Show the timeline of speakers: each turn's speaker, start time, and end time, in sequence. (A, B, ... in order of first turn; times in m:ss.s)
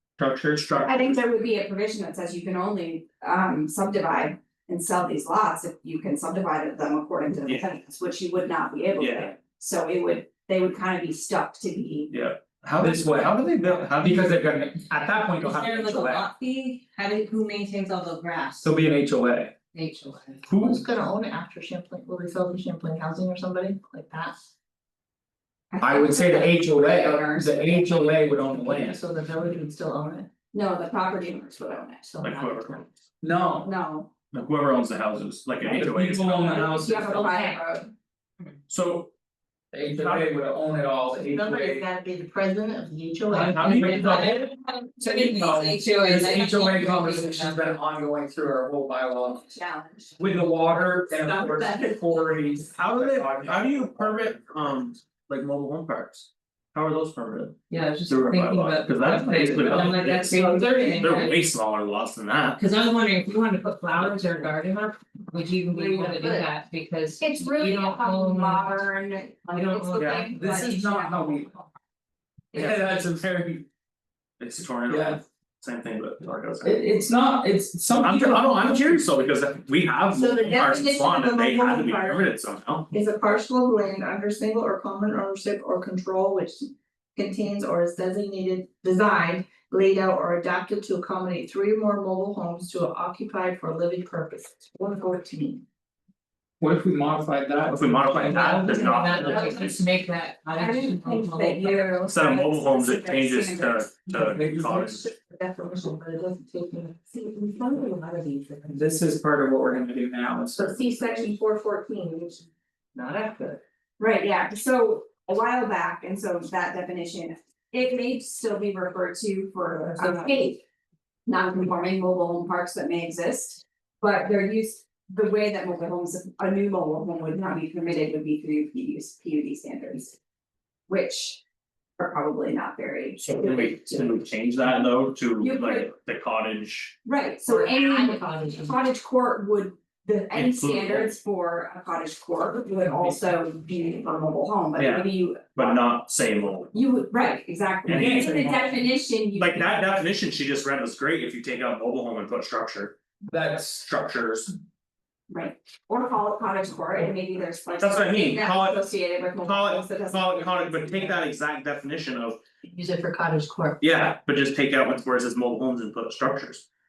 0:00.2-0:01.1 A
0:00.8-0:12.1 B
0:09.0-0:09.3 C
0:12.1-0:14.3 C
0:12.8-0:16.2 A
0:15.4-0:18.7 D
0:18.6-0:19.6 A
0:19.7-0:20.4 D
0:20.5-0:20.8 A
0:20.5-0:24.3 E
0:25.7-0:27.8 B
0:25.8-0:29.0 A
0:27.8-0:30.3 E
0:30.5-0:32.1 B
0:32.0-0:32.8 E
0:32.2-0:32.9 C
0:33.2-0:33.7 A
0:33.6-0:34.1 B
0:34.3-0:37.0 C
0:35.6-0:37.4 A
0:36.5-0:37.9 B
0:38.7-0:39.1 C
0:39.7-0:41.8 A
0:40.0-0:40.3 C
0:41.3-0:43.7 E
0:43.3-0:44.4 C
0:43.4-0:44.5 A
0:43.5-0:47.7 D
0:45.0-0:49.5 A
0:49.4-0:50.2 B
0:50.2-0:54.6 A
0:52.7-1:02.6 C
0:57.7-1:01.4 D
0:59.6-0:59.9 A
1:02.6-1:08.7 D
1:05.7-1:06.4 E
1:07.2-1:11.7 B
1:09.5-1:10.3 D
1:10.0-1:10.2 C
1:10.3-1:11.5 A
1:12.5-1:13.6 A
1:14.4-1:17.1 C
1:14.9-1:15.2 A
1:16.6-1:18.9 A
1:17.9-1:22.9 C
1:20.1-1:22.2 E
1:22.9-1:35.6 E
1:36.6-1:39.5 A
1:37.7-1:39.8 C
1:38.8-1:42.0 D
1:39.3-1:39.7 B
1:40.6-1:44.1 B
1:42.0-1:45.0 C
1:44.2-1:48.6 E
1:48.7-1:51.3 A
1:50.6-1:52.4 E
1:52.9-1:53.6 E
1:54.0-2:00.6 B
1:59.8-2:00.5 E
2:01.2-2:10.2 B
2:10.9-2:11.4 B
2:12.0-2:14.1 B
2:13.2-2:17.0 C
2:15.4-2:15.9 B
2:17.0-2:25.8 B
2:17.5-2:18.8 E
2:20.3-2:21.1 C
2:24.8-2:26.7 C
2:26.7-2:30.0 B
2:27.8-2:28.8 A
2:27.9-2:28.3 C
2:29.3-2:33.0 C
2:33.3-2:33.9 A
2:33.8-2:34.5 C
2:35.3-2:41.2 B
2:37.7-2:42.4 C
2:42.6-2:43.8 E
2:43.8-2:46.6 C